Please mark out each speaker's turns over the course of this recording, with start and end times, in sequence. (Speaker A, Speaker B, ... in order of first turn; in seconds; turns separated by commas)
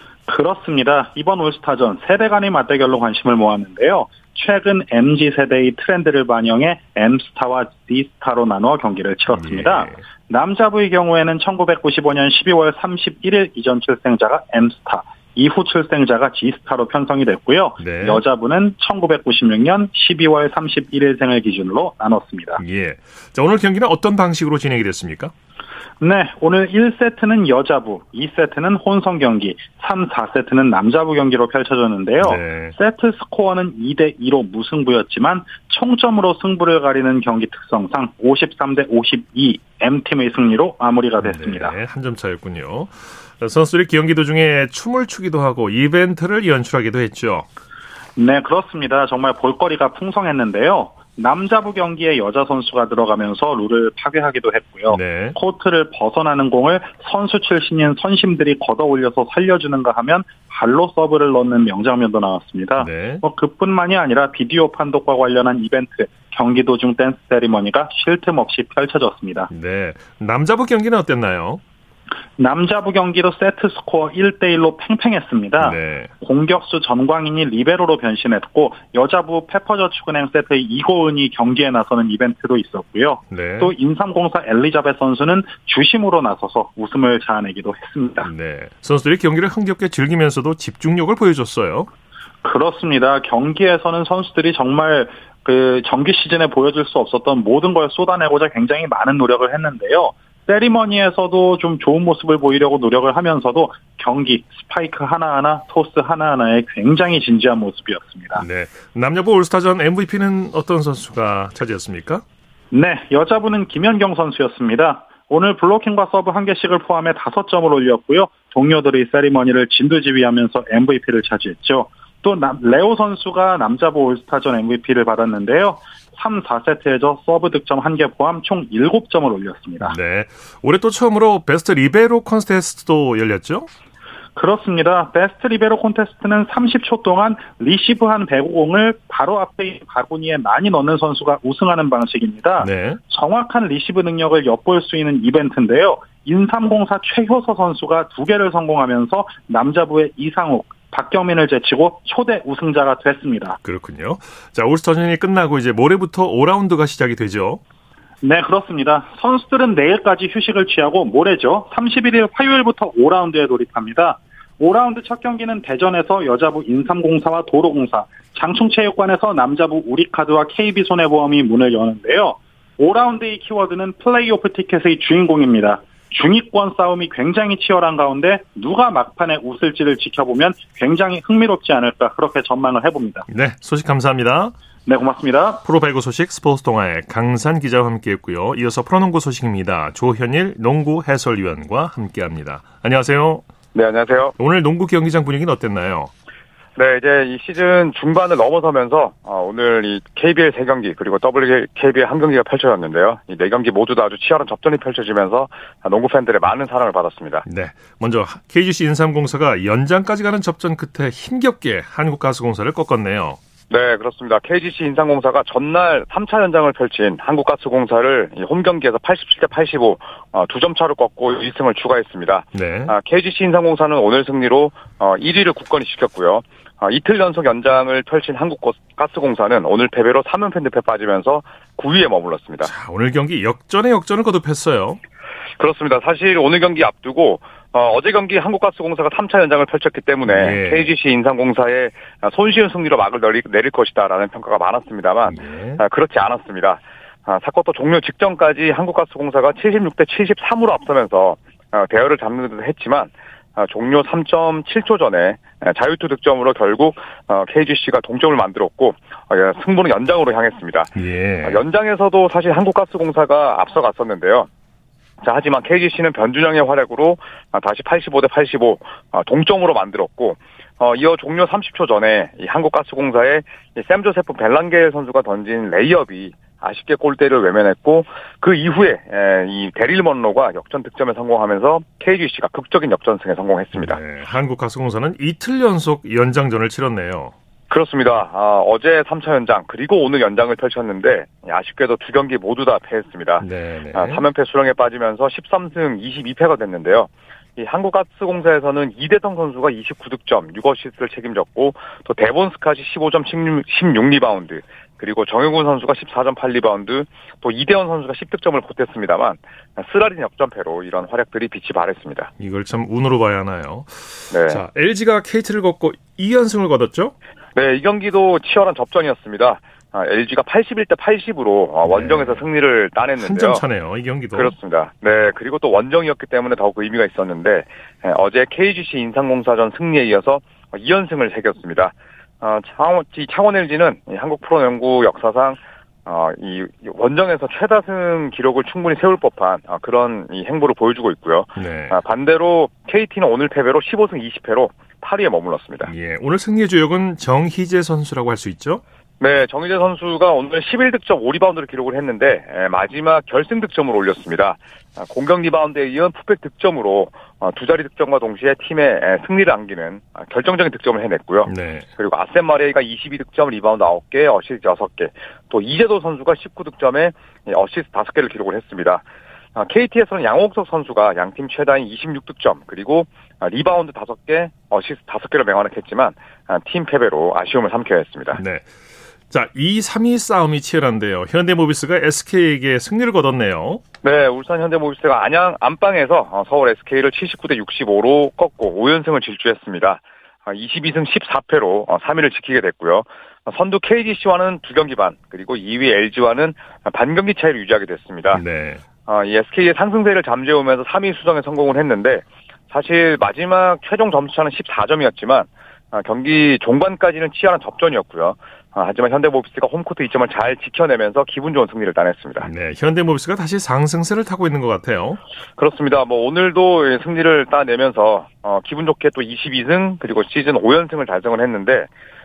Speaker A: 0.3-22.6, Speaker B: 9.3-10.0, Speaker B: 17.8-18.2, Speaker B: 22.6-25.3, Speaker A: 26.0-41.7, Speaker B: 32.2-32.7, Speaker B: 41.2-47.5, Speaker A: 48.2-69.5, Speaker B: 54.9-55.4, Speaker B: 62.8-63.2, Speaker B: 69.5-71.6, Speaker A: 72.4-88.3, Speaker B: 75.6-76.1, Speaker B: 83.3-83.7, Speaker B: 88.2-91.9, Speaker A: 92.4-108.4, Speaker B: 108.3-112.2, Speaker A: 112.7-129.9, Speaker B: 129.8-133.7, Speaker A: 134.3-153.6, Speaker B: 142.6-143.0, Speaker B: 153.6-157.6, Speaker A: 158.2-183.2, Speaker B: 183.3-184.5, Speaker A: 184.8-185.6, Speaker B: 185.6-193.4, Speaker C: 193.7-194.3, Speaker B: 194.4-196.1, Speaker C: 196.8-207.4, Speaker B: 207.4-213.4, Speaker C: 213.7-232.7, Speaker B: 222.5-222.9, Speaker B: 232.6-235.0, Speaker C: 235.6-264.5, Speaker B: 240.3-240.9, Speaker B: 245.3-245.8, Speaker B: 260.9-261.6, Speaker C: 265.2-284.0, Speaker B: 283.7-287.3, Speaker C: 287.7-312.3, Speaker B: 293.4-294.2, Speaker B: 312.4-317.1, Speaker C: 314.3-314.6, Speaker C: 317.5-323.6, Speaker B: 321.8-322.4, Speaker B: 323.2-324.5, Speaker C: 324.3-345.9, Speaker B: 341.6-342.0, Speaker B: 345.8-348.8, Speaker C: 349.2-369.0, Speaker B: 361.5-361.9, Speaker C: 369.6-378.4, Speaker B: 378.4-378.7, Speaker B: 379.3-383.8, Speaker C: 384.0-398.4, Speaker B: 398.3-398.8, Speaker C: 399.1-412.5, Speaker B: 412.4-415.2, Speaker C: 415.6-421.9